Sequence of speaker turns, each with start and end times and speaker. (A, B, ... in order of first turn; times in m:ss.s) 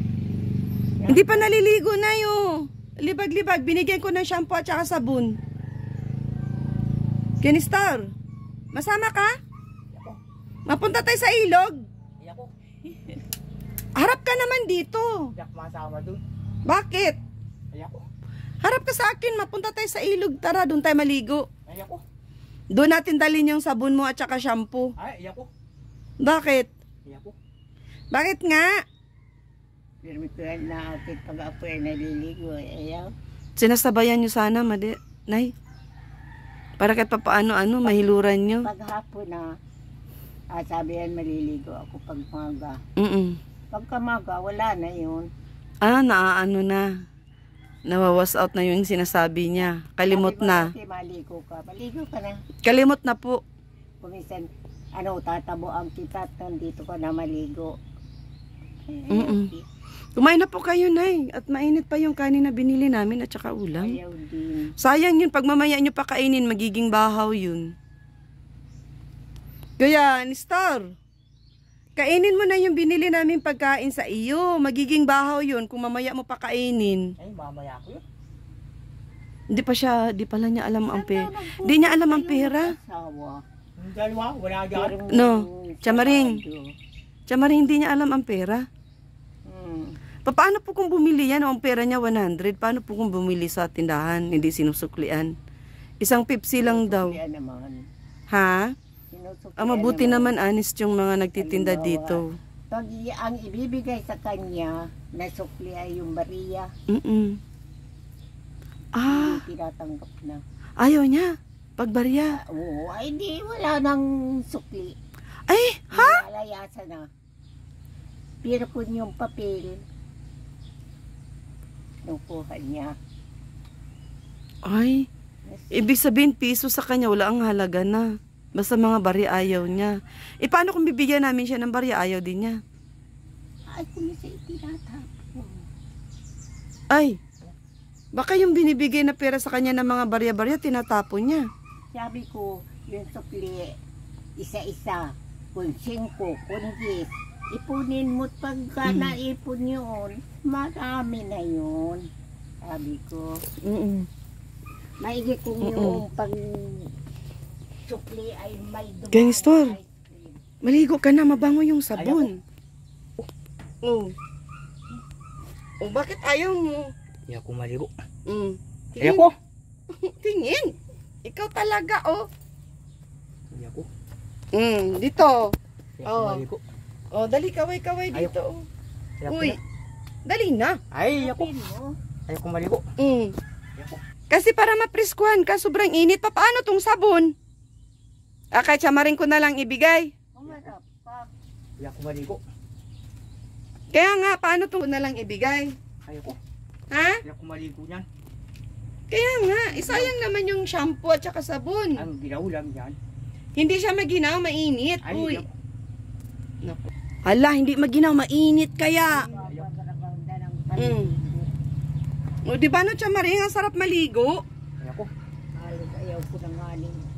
0:01.0-0:01.5 A
0:01.1-0:05.4 B
0:07.4-0:08.1 B
0:08.7-0:09.3 B
0:09.9-0:10.2 C
0:10.7-0:11.9 B
0:12.2-0:12.5 C
0:14.0-0:15.3 B
0:15.4-0:16.2 C
0:16.7-0:17.2 B
0:17.7-0:18.0 C
0:18.6-0:21.5 B
0:21.7-0:22.0 C
0:22.7-0:24.9 B
0:25.0-0:25.5 C
0:26.2-0:26.7 B
0:27.0-0:27.3 C
0:28.1-0:28.8 B
0:30.0-0:33.1 A
0:33.6-0:35.5 B
0:36.8-0:38.7 B
0:37.8-0:39.5 A
0:40.5-0:42.8 A
0:43.0-0:43.4 B
0:43.7-0:45.3 A
0:45.8-0:47.0 B
0:47.9-0:50.7 B
0:50.1-0:52.4 A
0:52.6-0:53.4 B
0:54.0-0:57.8 A
0:58.9-0:59.6 A
0:59.1-0:59.5 B
1:00.2-1:04.0 B
1:03.8-1:04.7 A
1:04.8-1:07.7 B
1:09.8-1:10.9 B
1:12.0-1:17.1 B
1:17.2-1:18.0 C
1:19.5-1:22.7 B
1:20.9-1:23.4 A
1:23.8-1:25.0 C
1:24.7-1:26.7 A
1:25.1-1:26.4 B
1:27.3-1:28.7 B
1:29.5-1:30.0 A
1:30.2-1:35.3 B
1:36.0-1:37.2 B
1:36.6-1:37.8 A
1:38.3-1:38.8 B
1:39.1-1:40.3 A
1:39.6-1:42.4 B
1:41.4-1:46.7 A
1:46.9-1:47.4 B
1:49.0-1:49.4 B
1:49.1-1:50.4 A
1:50.8-1:52.4 B
1:52.3-1:55.0 A
1:55.5-1:56.2 B
1:55.9-1:57.1 A
1:58.4-1:59.8 A
2:02.1-2:02.9 A
2:04.6-2:05.1 B
2:05.5-2:05.9 A
2:05.7-2:12.6 B
2:13.7-2:15.7 A
2:16.9-2:17.2 B
2:18.1-2:21.5 B
2:21.9-2:23.8 A
2:24.4-2:32.1 A
2:28.8-2:29.2 B
2:32.6-2:33.4 A
2:33.6-2:34.1 B
2:35.0-2:36.9 A
2:35.6-2:36.0 B
2:37.9-2:40.4 A
2:39.1-2:39.8 B
2:40.6-2:42.4 B
2:41.9-2:42.3 C
2:43.8-2:44.1 B
2:45.8-2:46.9 B
2:47.3-2:47.9 C
2:48.3-2:49.3 B
2:49.0-2:49.3 C
2:49.9-2:50.7 B
2:51.2-2:52.3 B
2:53.5-2:53.9 C
2:54.5-2:55.5 B
2:56.0-2:56.6 C
2:56.1-2:56.4 B
2:57.1-2:58.6 B
2:59.2-2:59.6 C
2:59.3-2:59.6 B
3:00.2-3:00.8 B
3:00.9-3:01.5 C
3:01.1-3:02.0 A
3:02.3-3:02.8 C
3:03.0-3:03.3 B
3:04.3-3:07.3 B
3:08.5-3:10.1 B
3:10.4-3:11.3 A
3:11.8-3:12.4 C
3:13.9-3:15.8 B
3:16.1-3:16.4 C
3:16.9-3:17.2 B
3:17.2-3:18.1 C
3:19.1-3:22.1 B
3:19.8-3:20.1 A
3:22.0-3:23.0 C
3:23.6-3:25.4 B
3:25.0-3:25.5 C
3:26.6-3:29.3 B
3:29.1-3:29.7 C
3:29.1-3:31.5 A
3:30.8-3:31.1 B
3:32.5-3:34.4 B
3:34.8-3:35.1 C
3:35.6-3:37.0 A